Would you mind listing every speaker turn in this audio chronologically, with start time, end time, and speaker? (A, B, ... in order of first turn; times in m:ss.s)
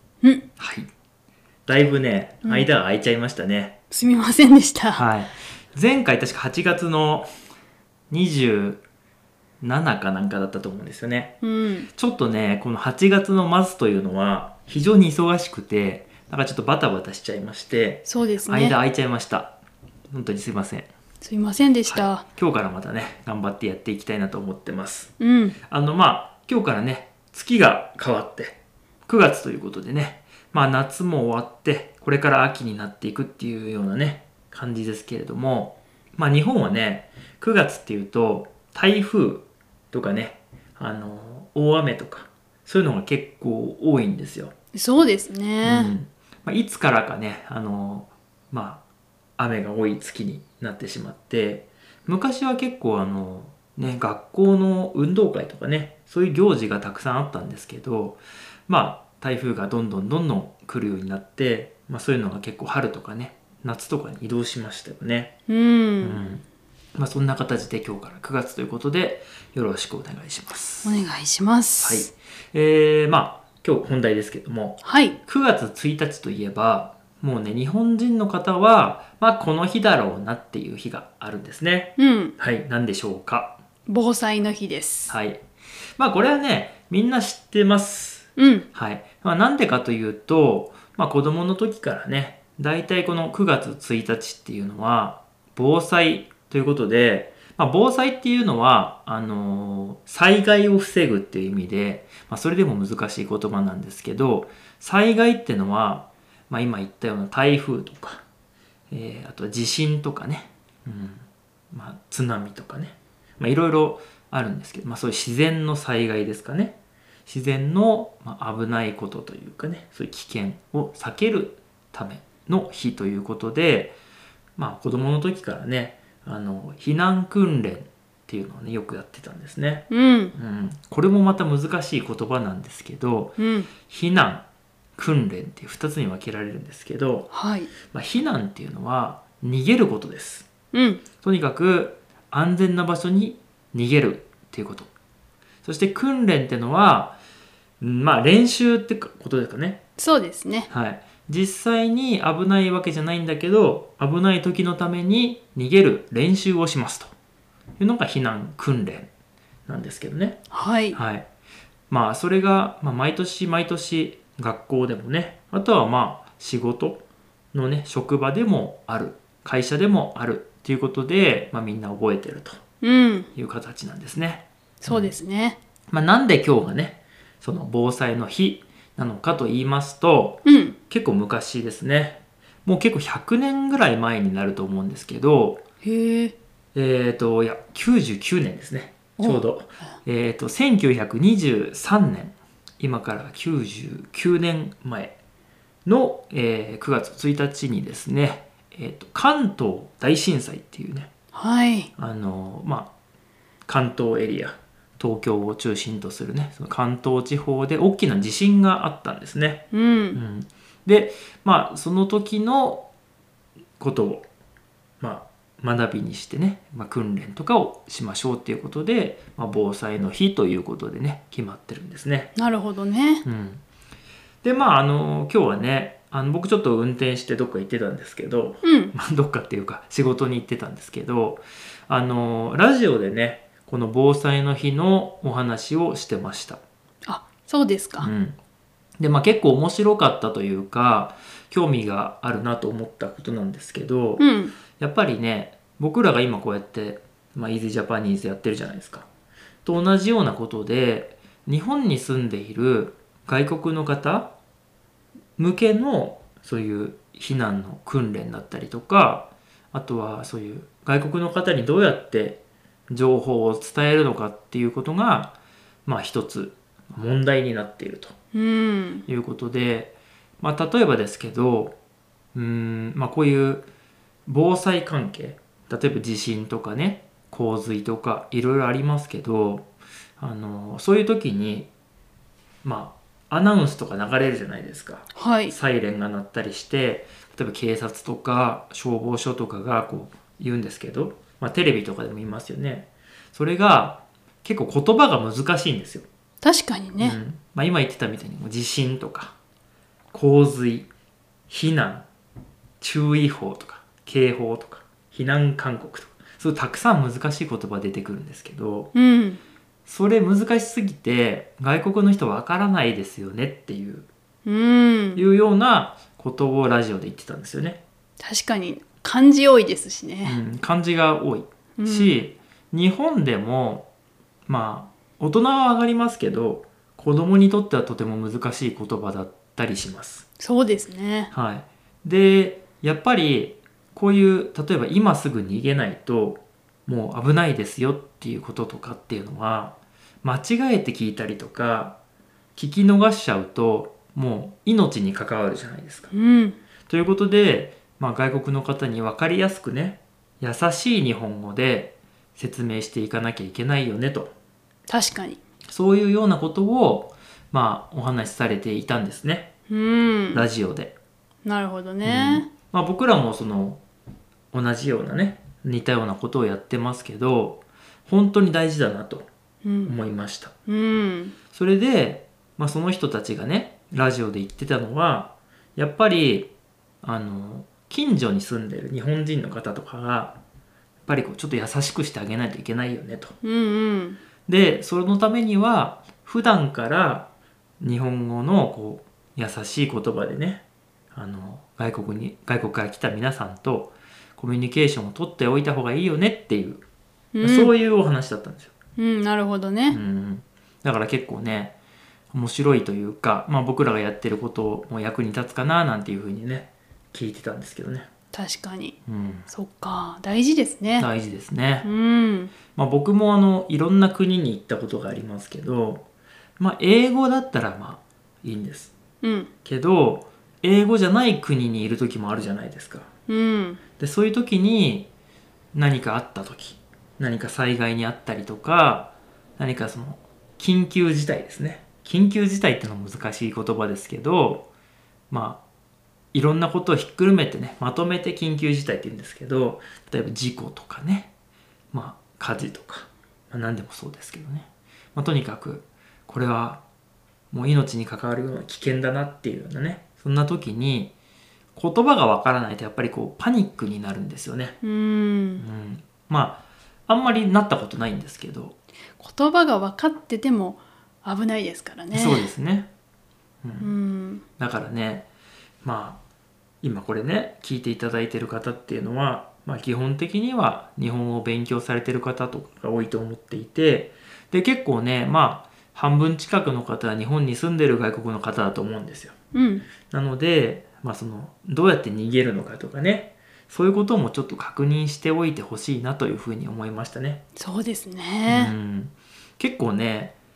0:00.6-0:00.9 A
0:01.6-0:03.8 A
0:03.9-0:05.0 B
0:05.0-0:07.3 A
0:08.1-0:08.8 A
0:09.6-0:11.4 A
0:11.4-0:11.9 B
0:11.9-0:19.6 A
0:18.0-0:18.8 B
0:20.1-0:20.9 A
0:21.2-0:22.2 B
0:21.9-0:25.1 A
0:25.2-0:25.6 B
0:25.7-0:44.5 A
0:44.7-0:45.9 B
0:45.6-0:48.8 A
0:49.4-1:05.3 A
1:05.5-1:06.2 B
1:06.0-1:06.4 A
1:07.0-1:10.9 A
1:10.8-1:12.1 B
1:11.8-1:23.6 A
1:14.8-1:15.2 B
1:22.0-1:22.3 B
1:23.9-1:25.1 B
1:25.1-1:25.4 A
1:26.0-1:48.2 A
1:28.4-1:28.7 B
1:48.9-2:04.0 A
2:04.6-2:14.4 A
2:09.9-2:10.3 B
2:13.4-2:13.7 B
2:15.0-2:17.3 A
2:17.3-2:17.7 B
2:17.9-2:20.5 A
2:20.7-2:21.0 B
2:21.2-2:24.9 A
2:25.6-2:27.2 A
2:27.8-2:29.8 A
2:30.0-2:30.7 B
2:30.7-2:37.1 A
2:37.8-2:39.1 A
2:39.7-2:40.4 A
2:40.5-2:41.0 B
2:40.9-2:41.3 A
2:41.9-2:52.6 A
2:52.8-2:53.3 B
2:53.3-2:55.1 A
2:54.8-2:55.6 B
2:55.9-3:05.6 A
3:00.4-3:00.8 B
3:05.8-3:06.3 B
3:06.7-3:15.2 A
3:09.2-3:09.4 B
3:15.8-3:21.1 A
3:21.3-3:21.9 B
3:22.0-3:22.9 A
3:23.6-3:32.9 A
3:29.7-3:30.2 B
3:33.8-3:34.2 A
3:35.0-3:42.3 A
3:42.4-3:43.2 B
3:43.2-3:43.6 A
3:44.4-3:56.6 A
3:48.6-3:48.9 B
3:57.0-3:58.1 B
3:58.0-3:58.4 A
3:59.0-4:04.2 A
4:04.2-4:04.5 B
4:04.8-4:09.1 A
4:09.6-4:14.3 A
4:15.4-4:28.1 A
4:28.3-4:29.0 B
4:29.0-4:31.8 A
4:32.3-4:33.7 A
4:34.3-4:41.7 A
4:42.6-4:56.1 A
4:45.1-4:45.5 B
4:56.4-4:57.2 B
4:57.0-4:59.4 A
5:00.1-5:00.9 A
5:01.5-5:02.1 A
5:02.8-5:08.9 A
5:08.9-5:09.4 B
5:09.8-5:14.1 A
5:14.4-5:15.2 B
5:15.1-5:17.8 A
5:18.2-5:20.4 B
5:20.2-5:23.9 A
5:21.8-5:22.2 B
5:24.5-5:30.3 A
5:30.4-5:31.3 B
5:31.3-5:42.0 A
5:42.6-5:46.1 A
5:46.1-5:46.6 B
5:46.9-5:54.3 A
5:54.9-5:55.4 B
5:55.7-5:59.5 A
5:59.7-6:00.4 B
6:00.3-6:00.9 A
6:01.4-6:02.5 B
6:02.0-6:03.8 A
6:04.5-6:09.3 A
6:09.6-6:10.0 B
6:09.8-6:10.5 A
6:10.7-6:11.3 B
6:11.5-6:16.5 A
6:17.0-6:20.4 A
6:21.0-6:23.3 A
6:23.4-6:24.2 B
6:24.4-6:27.3 A
6:27.8-6:36.8 A
6:37.3-6:37.7 B
6:37.4-6:38.7 A
6:39.0-6:40.0 B
6:39.9-6:41.8 A
6:42.3-6:48.1 A
6:48.3-6:49.0 B
6:49.0-6:49.5 A
6:49.5-6:51.1 B
6:51.0-6:51.9 A
6:51.8-6:52.5 B
6:52.7-6:56.0 A
6:56.6-6:58.9 A
6:59.2-6:59.5 B
6:59.6-7:03.1 A
7:03.3-7:03.8 B
7:04.0-7:05.1 A
7:05.7-7:14.7 A
7:15.3-7:15.6 A
7:16.3-7:21.3 A
7:21.9-7:26.8 A
7:27.5-7:31.1 A
7:31.7-7:34.8 A
7:34.8-7:35.6 B
7:35.6-7:38.8 A
7:39.2-7:42.5 B
7:42.1-7:42.9 A
7:43.6-7:43.9 A
7:43.8-7:44.4 B
7:44.6-7:45.2 A
7:45.8-7:46.2 A
7:46.8-7:59.3 A
7:59.5-7:59.9 B
8:00.1-8:07.4 A
8:07.6-8:08.7 B
8:08.4-8:10.3 A